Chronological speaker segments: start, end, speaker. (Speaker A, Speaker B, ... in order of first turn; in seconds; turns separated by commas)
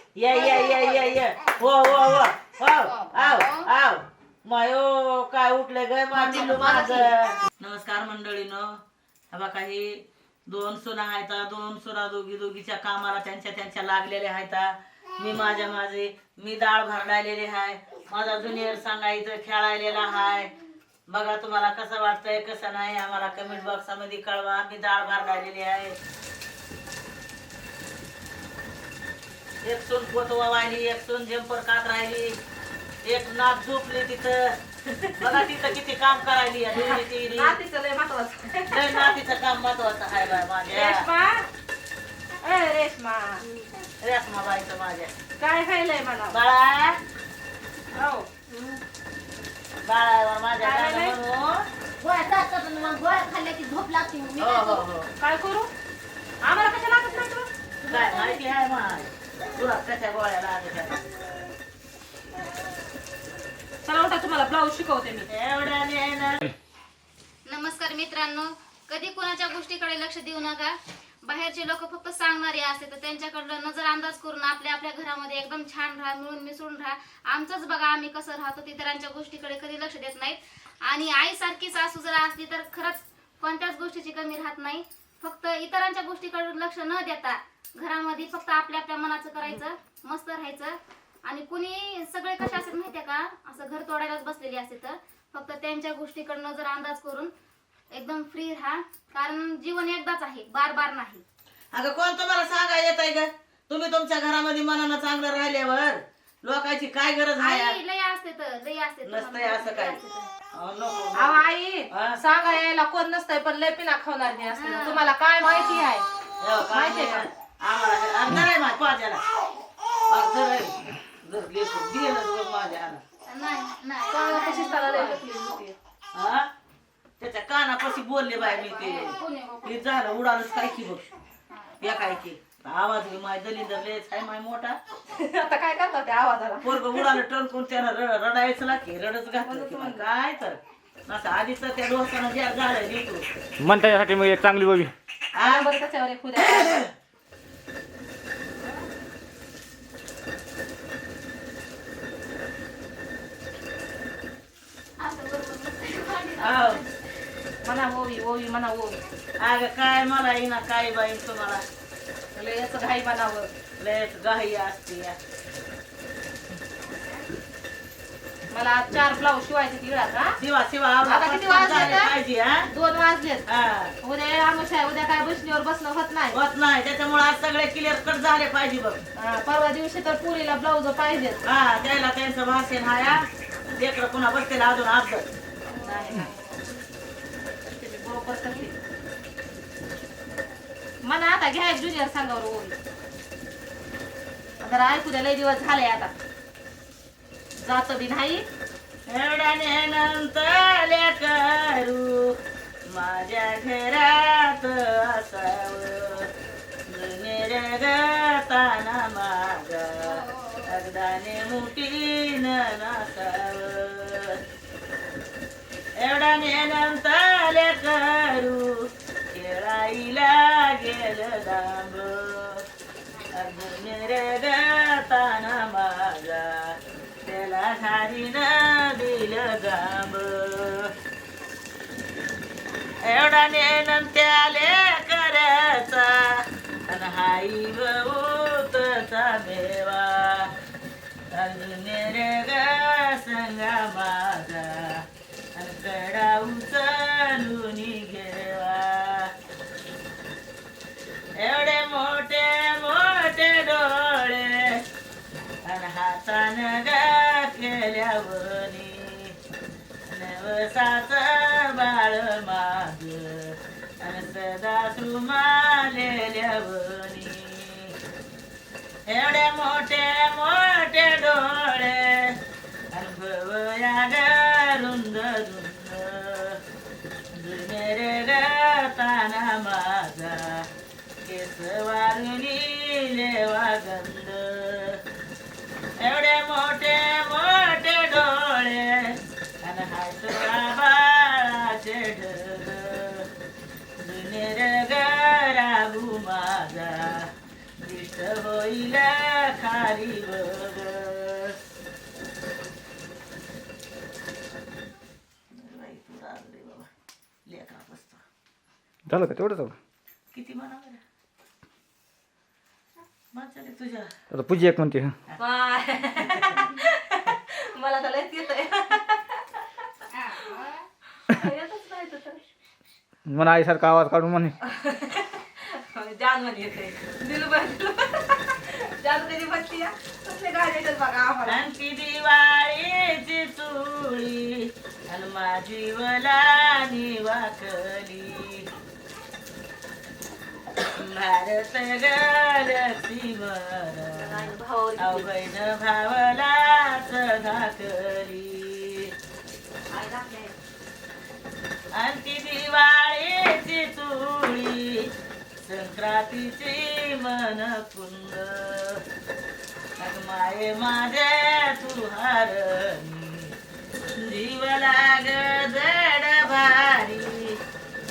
Speaker A: 0.1-8.8, Speaker B: 0.3-1.5, Speaker B: 2.8-3.7, Speaker C: 6.1-7.1, Speaker A: 9.3-20.5, Speaker A: 21.1-25.9, Speaker A: 29.6-32.4, Speaker A: 33.0-34.5, Speaker A: 35.1-37.6, Speaker D: 36.7-39.1, Speaker A: 38.7-41.1, Speaker D: 40.7-41.5, Speaker D: 42.4-43.4, Speaker A: 44.0-45.1, Speaker D: 45.4-46.4, Speaker A: 46.3-47.0, Speaker D: 47.9-48.3, Speaker C: 48.5-48.8, Speaker A: 49.8-51.6, Speaker D: 50.6-51.2, Speaker C: 52.0-54.8, Speaker A: 54.4-55.1, Speaker D: 55.2-55.7, Speaker D: 56.4-57.5, Speaker A: 57.8-61.0, Speaker C: 57.9-58.4, Speaker D: 63.8-65.3, Speaker A: 65.3-66.5, Speaker B: 67.5-97.3, Speaker B: 97.9-101.2, Speaker A: 101.7-107.8, Speaker B: 107.4-110.3, Speaker A: 109.0-110.0, Speaker A: 110.5-112.2, Speaker D: 111.2-116.0, Speaker B: 114.4-116.0, Speaker A: 116.4-119.2, Speaker D: 116.7-117.3, Speaker A: 120.1-123.0, Speaker B: 123.2-125.2, Speaker D: 124.1-125.7, Speaker A: 126.1-126.5, Speaker A: 127.2-131.0, Speaker B: 128.3-130.0, Speaker B: 131.5-132.2, Speaker A: 131.8-134.8, Speaker D: 135.1-137.1, Speaker A: 136.6-143.2, Speaker D: 139.4-140.1, Speaker E: 143.6-144.9, Speaker A: 145.3-145.7, Speaker D: 145.3-146.8, Speaker A: 146.4-146.9, Speaker B: 155.0-157.0, Speaker A: 156.4-156.8, Speaker D: 157.6-158.9, Speaker A: 159.4-161.6, Speaker D: 162.3-163.5, Speaker A: 163.8-165.1, Speaker D: 168.5-170.4, Speaker A: 170.4-172.7, Speaker D: 171.0-173.4, Speaker A: 173.4-173.9, Speaker D: 174.0-176.4, Speaker A: 176.3-179.0, Speaker D: 179.2-181.4, Speaker A: 181.4-185.2, Speaker B: 185.7-186.9, Speaker D: 185.8-186.3, Speaker D: 187.6-188.7, Speaker D: 191.0-192.7, Speaker D: 194.6-196.1, Speaker D: 197.6-198.4, Speaker A: 199.1-202.3, Speaker A: 202.9-206.3, Speaker A: 206.9-214.4, Speaker B: 210.0-210.8, Speaker A: 216.0-218.7, Speaker A: 219.3-222.6, Speaker B: 223.1-223.7, Speaker A: 223.3-230.9, Speaker A: 233.0-240.5, Speaker A: 241.3-245.0, Speaker A: 245.5-249.3, Speaker A: 251.4-254.8, Speaker A: 255.7-259.3, Speaker A: 260.1-267.9, Speaker A: 269.1-272.3, Speaker A: 272.9-276.6, Speaker A: 277.3-280.6, Speaker A: 281.2-285.0, Speaker A: 286.0-293.2, Speaker A: 294.0-297.3, Speaker A: 297.8-301.6, Speaker A: 305.5-306.9, Speaker A: 307.4-308.2, Speaker E: 309.1-309.7, Speaker A: 310.3-311.0, Speaker A: 313.3-314.1, Speaker E: 314.3-315.1, Speaker D: 315.4-319.5, Speaker B: 320.1-320.8, Speaker D: 321.3-322.4, Speaker E: 323.2-324.6, Speaker D: 324.6-331.6, Speaker A: 331.4-338.6, Speaker A: 340.9-349.1, Speaker D: 344.3-345.1, Speaker D: 349.9-350.5, Speaker A: 351.9-355.1, Speaker A: 355.6-359.0, Speaker A: 360.0-363.5, Speaker A: 364.2-367.6